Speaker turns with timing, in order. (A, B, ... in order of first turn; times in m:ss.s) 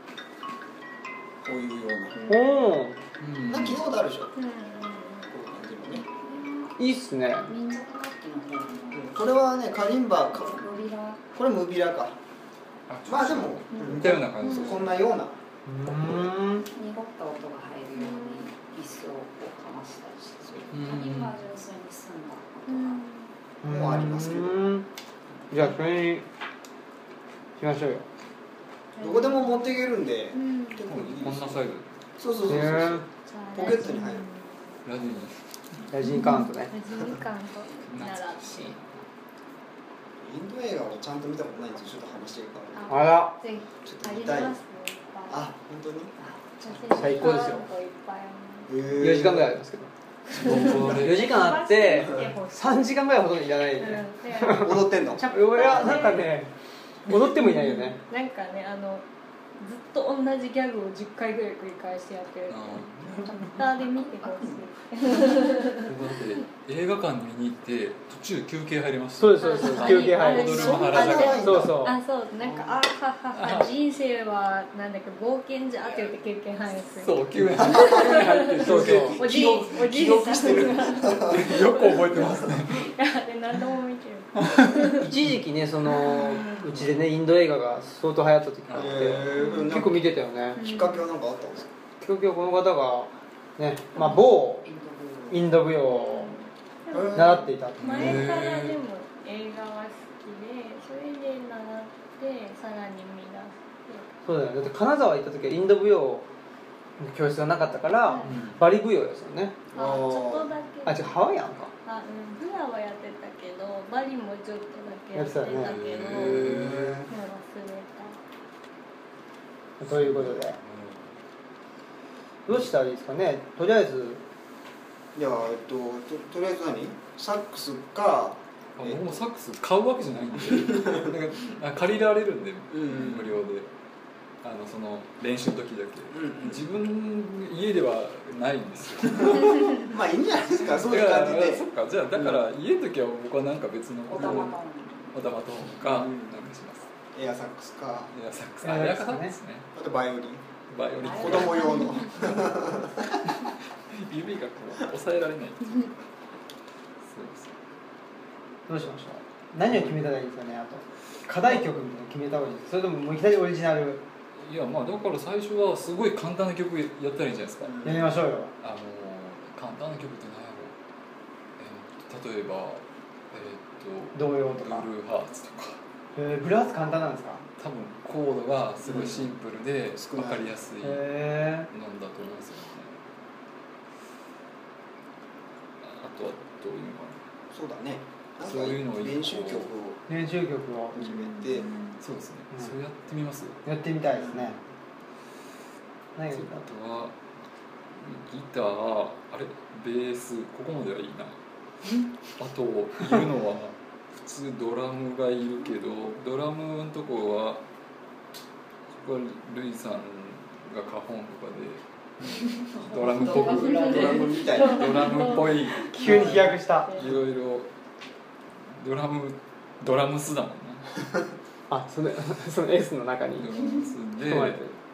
0:01.4-0:02.4 A
0:02.3-0:03.0 B
0:03.2-0:03.8 C
0:03.4-0:04.3 A
0:04.4-0:05.3 D
0:05.3-0:06.0 A
0:06.1-0:06.7 E
0:06.8-0:07.5 B
0:07.5-0:09.1 E
0:08.9-0:10.6 A
0:10.5-0:11.2 E
0:11.3-0:12.2 A
0:12.9-0:15.0 C
0:13.1-0:15.4 A
0:13.7-0:14.8 D
0:15.6-0:16.7 B
0:16.0-0:16.2 A
0:16.7-0:23.0 E
0:17.9-0:18.5 D
0:20.7-0:21.4 C
0:22.7-0:23.3 D
0:23.6-0:24.9 B
0:23.7-0:24.6 A
0:25.5-0:26.3 B
0:27.6-0:28.1 B
0:28.9-0:29.6 D
0:29.0-0:31.6 A
0:30.3-0:30.9 D
0:30.9-0:32.0 C
0:32.2-0:34.2 A
0:32.5-0:33.1 B
0:33.2-0:34.8 D
0:34.8-0:35.4 C
0:35.9-0:36.7 B
0:36.1-0:38.8 D
0:37.9-0:39.0 C
0:40.2-0:42.9 A
0:42.7-0:45.5 D
0:42.9-0:43.4 B
0:43.8-0:44.6 A
0:45.3-0:46.1 A
0:46.2-0:46.8 E
0:46.6-0:48.8 D
0:46.9-0:47.7 B
0:48.7-0:49.6 A
0:49.0-0:49.9 B
0:50.3-0:51.4 C
0:50.4-0:53.1 D
0:50.4-0:51.0 A
0:50.9-0:56.5 B
0:53.8-0:56.3 D
0:54.5-0:56.0 A
0:57.1-0:58.0 B
0:57.3-0:59.0 D
0:59.6-1:06.4 D
1:02.5-1:03.6 C
1:03.9-1:05.6 E
1:05.8-1:11.7 C
1:09.2-1:12.0 B
1:09.4-1:25.1 D
1:10.7-1:11.9 A
1:13.3-1:13.7 C
1:16.9-1:19.6 C
1:17.6-1:18.2 A
1:18.6-1:19.2 B
1:18.8-1:21.5 A
1:20.4-1:20.7 C
1:21.3-1:22.9 C
1:24.4-1:24.9 C
1:25.0-1:30.6 B
1:26.0-1:26.6 D
1:28.7-1:29.3 C
1:28.7-1:31.7 A
1:29.3-1:29.7 D
1:30.6-1:31.0 D
1:32.0-1:34.7 B
1:34.6-1:35.4 E
1:35.3-1:36.4 B
1:35.9-1:44.1 D
1:36.9-1:37.5 A
1:37.1-1:38.2 B
1:37.8-1:38.8 C
1:44.2-1:46.3 B
1:47.0-1:49.6 B
1:48.0-1:48.4 D
1:48.2-1:48.6 C
1:49.7-1:51.1 D
1:49.7-1:50.5 A
1:50.8-1:51.7 B
1:51.8-1:58.2 D
1:55.1-1:55.7 B
1:55.5-1:57.0 C
1:56.3-1:57.0 A
1:59.8-2:00.6 B
1:59.8-2:01.2 C
2:02.5-2:04.2 B
2:05.1-2:09.2 A
2:08.8-2:13.7 C
2:10.7-2:11.1 A
2:12.8-2:13.2 A
2:14.4-2:19.9 C
2:16.2-2:16.6 A
2:19.7-2:21.6 A
2:20.7-2:24.6 C
2:24.1-2:25.2 E
2:25.1-2:26.9 C
2:25.8-2:26.4 A
2:27.1-2:28.1 A
2:28.1-2:29.7 C
2:28.6-2:29.4 B
2:29.7-2:30.4 A
2:30.7-2:32.7 C
2:31.0-2:32.0 E
2:31.2-2:33.2 A
2:33.9-2:35.9 C
2:37.1-2:37.6 C
2:38.7-2:44.0 B
2:39.7-2:40.0 C
2:44.4-2:50.7 C
2:47.7-2:48.0 A
2:47.8-2:48.5 B
2:51.6-2:55.8 C
2:54.1-2:54.9 B
2:56.1-2:57.4 B
2:57.6-3:01.1 C
2:58.8-2:59.3 A
3:00.0-3:00.5 A
3:00.8-3:01.7 B
3:01.7-3:02.9 C
3:05.8-3:07.2 C
3:07.5-3:10.0 A
3:08.4-3:09.7 C
3:10.1-3:11.1 B
3:10.9-3:11.7 A
3:11.1-3:12.0 D
3:12.0-3:13.6 C
3:13.6-3:14.6 B
3:16.2-3:16.6 B
3:16.3-3:17.2 C
3:17.9-3:21.4 C
3:22.3-3:27.6 C
3:28.9-3:37.7 C
3:32.6-3:35.8 E
3:33.5-3:35.0 A
3:33.8-3:37.2 D
3:35.9-3:36.9 B
3:38.7-3:40.9 C
3:41.7-3:43.5 B
3:43.4-3:44.6 C
3:44.2-3:44.7 B